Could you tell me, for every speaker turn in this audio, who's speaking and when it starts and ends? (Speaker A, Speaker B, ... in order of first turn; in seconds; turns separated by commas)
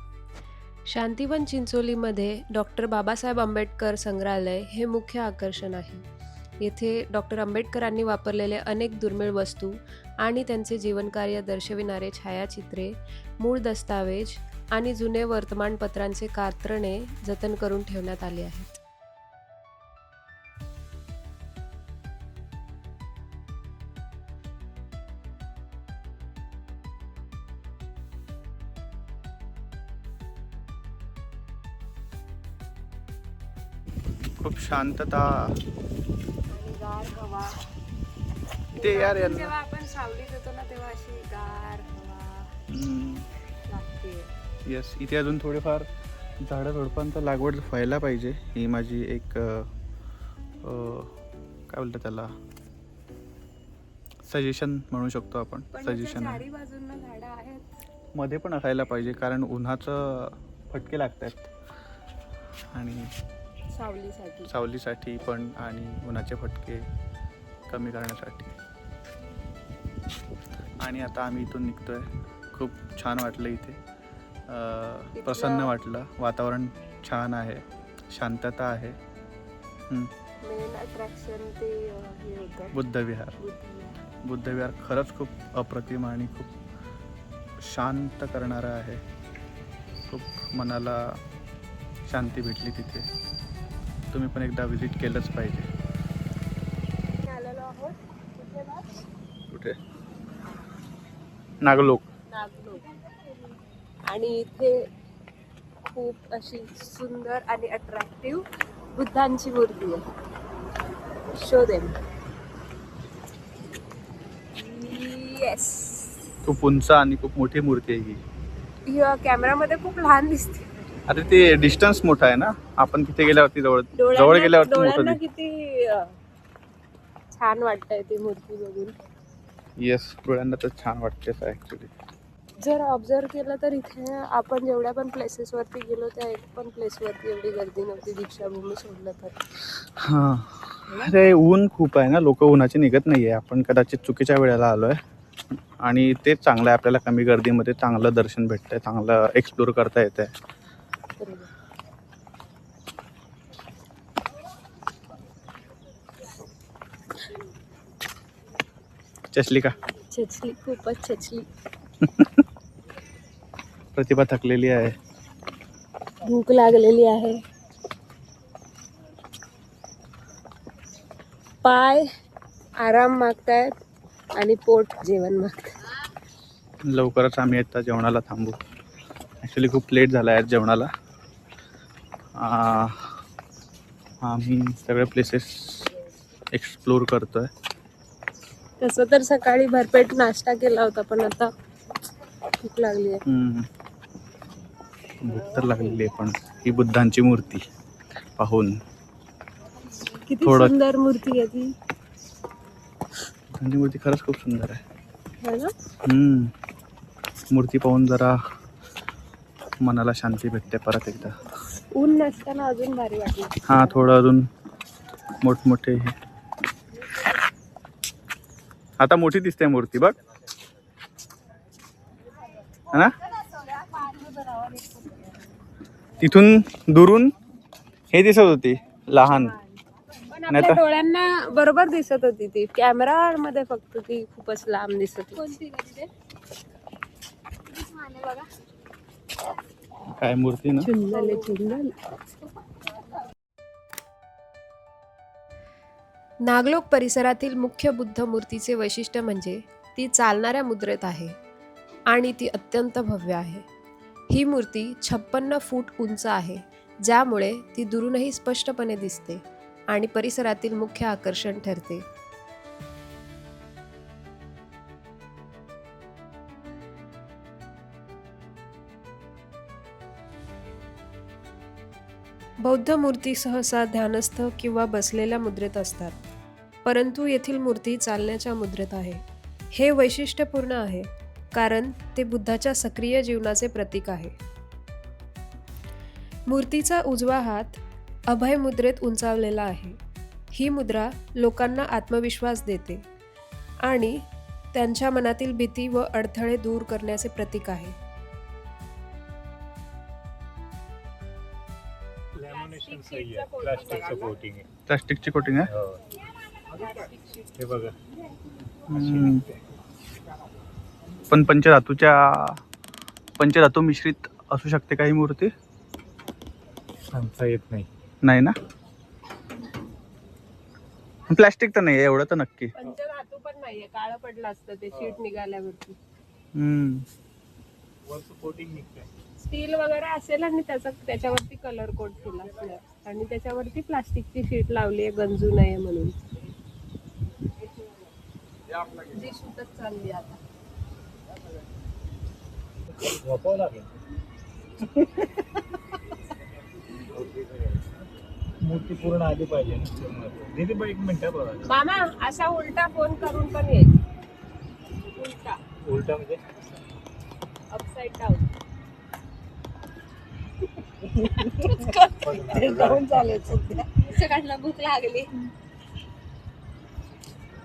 Speaker A: 0.9-6.1, Speaker A: 6.6-18.8, Speaker B: 34.4-35.6, Speaker C: 36.5-37.5, Speaker B: 38.8-39.5, Speaker C: 38.8-42.5, Speaker B: 42.7-43.3, Speaker C: 43.7-44.3, Speaker B: 44.6-45.9, Speaker B: 46.4-49.7, Speaker B: 50.6-51.1, Speaker B: 51.7-52.3, Speaker B: 54.2-56.4, Speaker C: 55.7-57.7, Speaker B: 58.1-61.5, Speaker B: 62.7-63.1, Speaker C: 63.7-64.5, Speaker B: 64.5-66.9, Speaker B: 67.7-68.6, Speaker B: 70.8-73.8, Speaker B: 74.5-79.0, Speaker C: 75.2-75.7, Speaker C: 80.5-82.7, Speaker B: 82.7-83.4, Speaker C: 83.4-83.9, Speaker B: 84.2-86.5, Speaker B: 87.6-89.0, Speaker B: 90.1-91.2, Speaker B: 92.1-93.1, Speaker B: 94.1-95.7, Speaker C: 97.2-98.9, Speaker B: 99.5-99.8, Speaker B: 101.6-102.0, Speaker C: 102.3-102.8, Speaker C: 104.1-104.8, Speaker C: 105.9-108.4, Speaker C: 109.0-110.0, Speaker C: 111.3-112.0, Speaker C: 114.6-116.2, Speaker B: 116.5-118.2, Speaker C: 118.9-120.8, Speaker B: 121.1-125.2, Speaker C: 124.0-126.1, Speaker C: 127.4-128.9, Speaker B: 129.8-131.9, Speaker C: 132.6-139.3, Speaker B: 139.8-145.0, Speaker B: 145.8-150.3, Speaker C: 151.2-151.5, Speaker B: 159.3-159.8, Speaker C: 160.1-161.5, Speaker B: 162.0-162.3, Speaker B: 163.9-164.9, Speaker C: 166.2-167.4, Speaker C: 171.6-172.1, Speaker C: 172.8-173.7, Speaker C: 174.4-175.8, Speaker B: 176.8-178.6, Speaker B: 179.4-180.9, Speaker B: 182.4-183.2, Speaker B: 184.2-185.9, Speaker B: 186.5-187.5, Speaker C: 188.8-191.5, Speaker A: 189.9-191.2, Speaker A: 192.6-193.2, Speaker C: 192.8-193.1, Speaker B: 193.3-193.7, Speaker B: 195.2-197.7, Speaker B: 198.4-198.8, Speaker B: 200.4-200.8, Speaker C: 200.6-201.6, Speaker A: 201.1-201.7, Speaker B: 203.6-204.8, Speaker B: 206.1-206.5, Speaker B: 207.5-208.4, Speaker B: 209.8-211.4, Speaker C: 212.0-213.6, Speaker B: 213.7-214.5, Speaker B: 215.4-216.2, Speaker B: 219.0-220.2, Speaker B: 226.2-227.3, Speaker B: 228.1-229.6, Speaker C: 230.3-236.1, Speaker B: 230.5-230.8, Speaker A: 232.7-233.3, Speaker A: 234.4-234.7, Speaker C: 237.7-238.5, Speaker B: 240.2-240.9, Speaker A: 240.8-241.9, Speaker C: 241.0-241.8, Speaker A: 246.5-251.4, Speaker A: 252.1-253.7, Speaker A: 254.3-262.1, Speaker A: 272.6-276.1, Speaker A: 276.9-284.4, Speaker A: 286.5-290.0, Speaker A: 290.5-293.0, Speaker A: 293.9-294.2, Speaker A: 294.7-297.9, Speaker D: 302.4-304.7, Speaker C: 302.5-304.4, Speaker B: 304.9-305.7, Speaker D: 305.7-306.0, Speaker C: 306.7-307.4, Speaker D: 307.6-308.0, Speaker B: 308.9-309.5, Speaker B: 311.3-312.6, Speaker B: 313.4-315.5, Speaker D: 317.1-317.9, Speaker B: 318.2-318.6, Speaker B: 321.3-322.7, Speaker C: 322.8-326.0, Speaker B: 326.6-327.1, Speaker D: 328.1-329.1, Speaker C: 329.5-336.1, Speaker A: 330.1-331.9, Speaker A: 333.5-333.8, Speaker C: 338.9-340.2, Speaker A: 339.4-340.4, Speaker D: 343.0-343.9, Speaker D: 347.1-348.0, Speaker D: 348.6-351.7, Speaker C: 351.6-354.0, Speaker C: 355.2-355.6, Speaker D: 355.8-356.4, Speaker C: 357.7-358.5, Speaker C: 361.4-365.3, Speaker D: 362.2-363.2